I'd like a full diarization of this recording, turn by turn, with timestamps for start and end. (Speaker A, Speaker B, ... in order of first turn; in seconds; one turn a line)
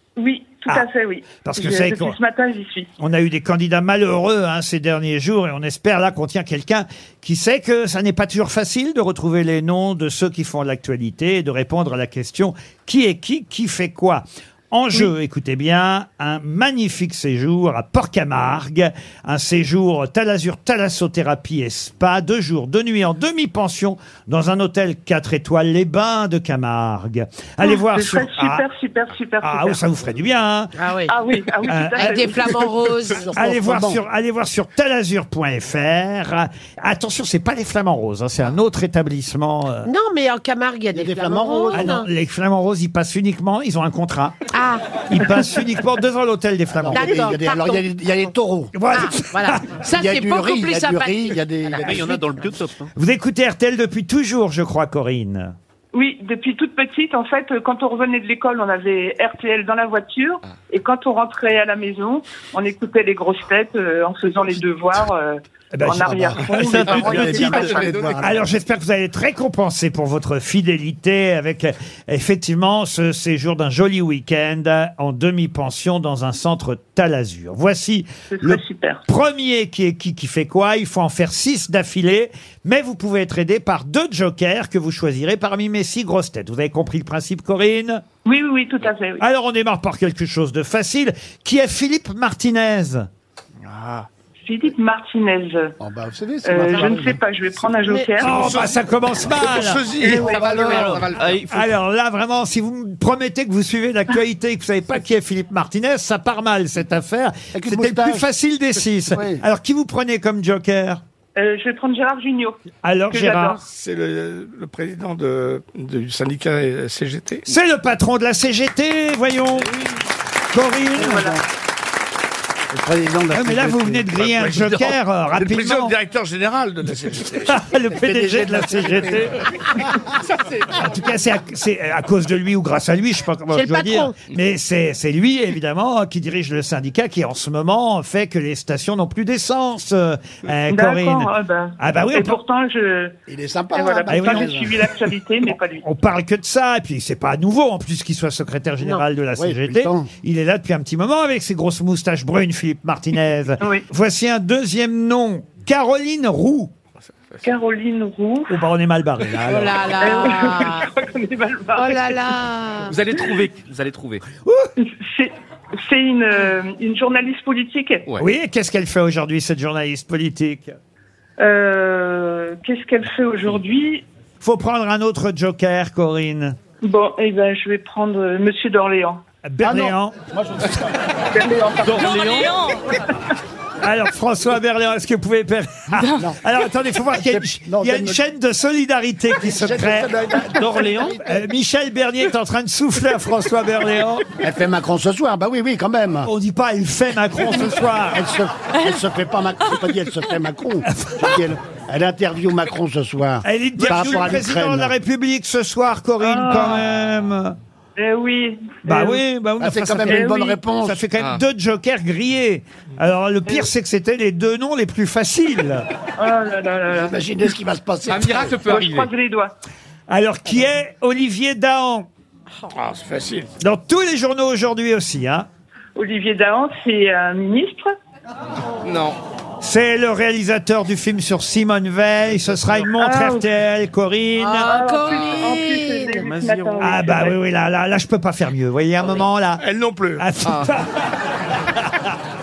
Speaker A: 0.2-2.9
Speaker B: 1.4-2.2
Speaker B: 3.0-28.6
Speaker A: 27.6-29.8
Speaker B: 29.4-30.7
Speaker C: 30.8-31.1
Speaker A: 31.1-32.6
Speaker B: 31.7-32.3
Speaker C: 32.0-33.3
Speaker D: 33.1-34.0
Speaker B: 33.3-39.9
Speaker C: 39.8-42.1
Speaker D: 40.9-41.9
Speaker B: 41.7-44.4
Speaker C: 44.5-45.2
Speaker B: 45.1-47.2
Speaker D: 46.7-48.8
Speaker C: 46.9-47.9
Speaker B: 48.7-49.8
Speaker C: 48.9-52.6
Speaker D: 49.9-52.1
Speaker E: 51.8-52.9
Speaker B: 53.0-55.5
Speaker A: 55.9-68.1
Speaker B: 65.7-66.1
Speaker D: 66.0-68.4
Speaker E: 66.7-67.6
Speaker B: 68.2-88.0
Speaker A: 78.3-79.0
Speaker A: 88.2-89.2
Speaker B: 89.2-93.1
Speaker F: 93.7-94.1
Speaker A: 94.5-95.7
Speaker D: 95.8-97.2
Speaker A: 96.4-98.4
Speaker C: 97.9-98.5
Speaker B: 98.2-99.9
Speaker F: 98.3-98.8
Speaker F: 99.3-101.4
Speaker A: 100.0-100.8
Speaker D: 100.6-100.9
Speaker E: 100.6-101.6
Speaker B: 101.5-111.0
Speaker D: 107.5-108.2
Speaker D: 109.1-109.4
Speaker A: 111.4-113.6
Speaker B: 112.8-113.6
Speaker F: 113.6-117.5
Speaker B: 117.5-119.7
Speaker B: 120.5-121.3
Speaker A: 121.0-121.4
Speaker D: 121.1-121.3
Speaker D: 122.7-124.1
Speaker B: 123.3-126.0
Speaker F: 124.2-127.6
Speaker B: 127.5-129.8
Speaker D: 128.0-129.2
Speaker B: 130.7-142.4
Speaker C: 133.5-134.1
Speaker A: 140.7-143.1
Speaker D: 143.3-145.1
Speaker A: 143.7-145.8
Speaker B: 144.1-144.6
Speaker B: 145.8-156.7
Speaker D: 149.4-150.1
Speaker A: 153.6-153.9
Speaker A: 157.4-158.6
Speaker B: 158.5-159.7
Speaker C: 159.5-160.9
Speaker A: 159.9-162.4
Speaker C: 161.8-163.0
Speaker E: 162.9-164.2
Speaker A: 163.1-163.4
Speaker A: 164.8-168.2
Speaker B: 168.2-170.8
Speaker A: 171.4-174.0
Speaker B: 174.4-176.6
Speaker A: 176.8-179.2
Speaker B: 179.4-180.2
Speaker D: 179.6-181.0
Speaker A: 181.3-182.5
Speaker E: 181.8-182.8
Speaker B: 183.8-190.2
Speaker D: 187.2-188.2
Speaker D: 189.4-191.2
Speaker E: 190.6-191.2
Speaker B: 191.2-194.3
Speaker D: 194.4-196.3
Speaker B: 196.2-198.2
Speaker D: 198.1-204.9
Speaker B: 200.9-201.4
Speaker B: 203.4-207.5
Speaker A: 206.2-206.8
Speaker A: 207.9-209.2
Speaker B: 208.8-210.2
Speaker D: 209.6-211.1
Speaker A: 210.1-210.6
Speaker B: 210.8-215.8
Speaker A: 216.2-217.2
Speaker D: 216.9-218.8
Speaker A: 218.4-219.6
Speaker B: 220.1-222.1
Speaker F: 222.7-223.5
Speaker B: 223.6-225.5
Speaker A: 225.9-227.9
Speaker F: 228.8-229.2
Speaker B: 229.6-234.7
Speaker A: 232.9-233.5
Speaker C: 234.4-236.1
Speaker A: 234.6-237.4
Speaker E: 236.2-237.1
Speaker B: 236.8-239.6
Speaker F: 239.6-240.3
Speaker B: 240.2-241.0